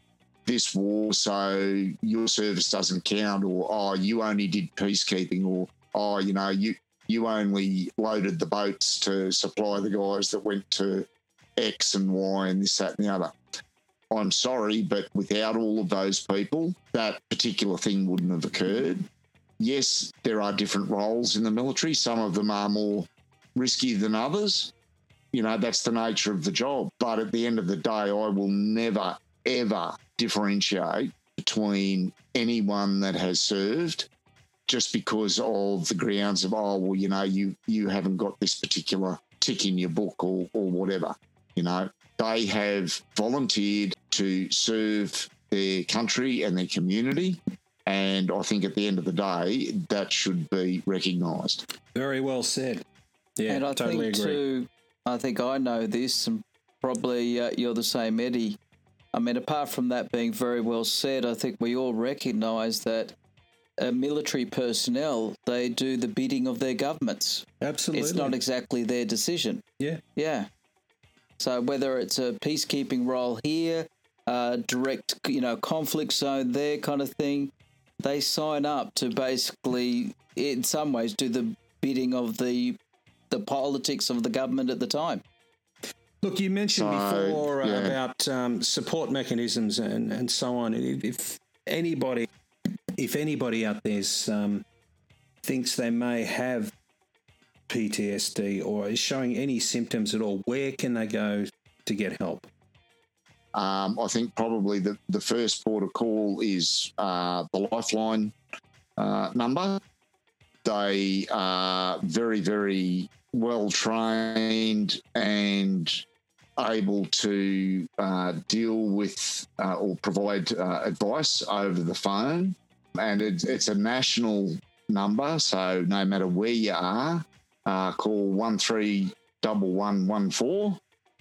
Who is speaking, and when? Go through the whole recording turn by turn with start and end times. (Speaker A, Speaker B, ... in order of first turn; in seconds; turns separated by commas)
Speaker A: 0.5-13.4, Speaker A: 14.1-19.1, Speaker A: 19.6-24.7, Speaker A: 25.3-34.1, Speaker A: 34.7-51.7, Speaker B: 51.9-52.8, Speaker B: 53.4-54.4, Speaker C: 53.5-58.6, Speaker C: 59.1-63.1, Speaker C: 63.8-69.6, Speaker B: 67.6-68.3, Speaker C: 70.2-70.5, Speaker C: 71.4-82.8, Speaker C: 83.3-85.2, Speaker B: 86.2-92.3, Speaker A: 86.7-88.0, Speaker B: 93.0-94.6, Speaker B: 95.4-96.7, Speaker B: 97.7-102.5, Speaker A: 103.5-108.3, Speaker A: 109.0-109.8, Speaker A: 110.6-116.0, Speaker A: 116.6-130.8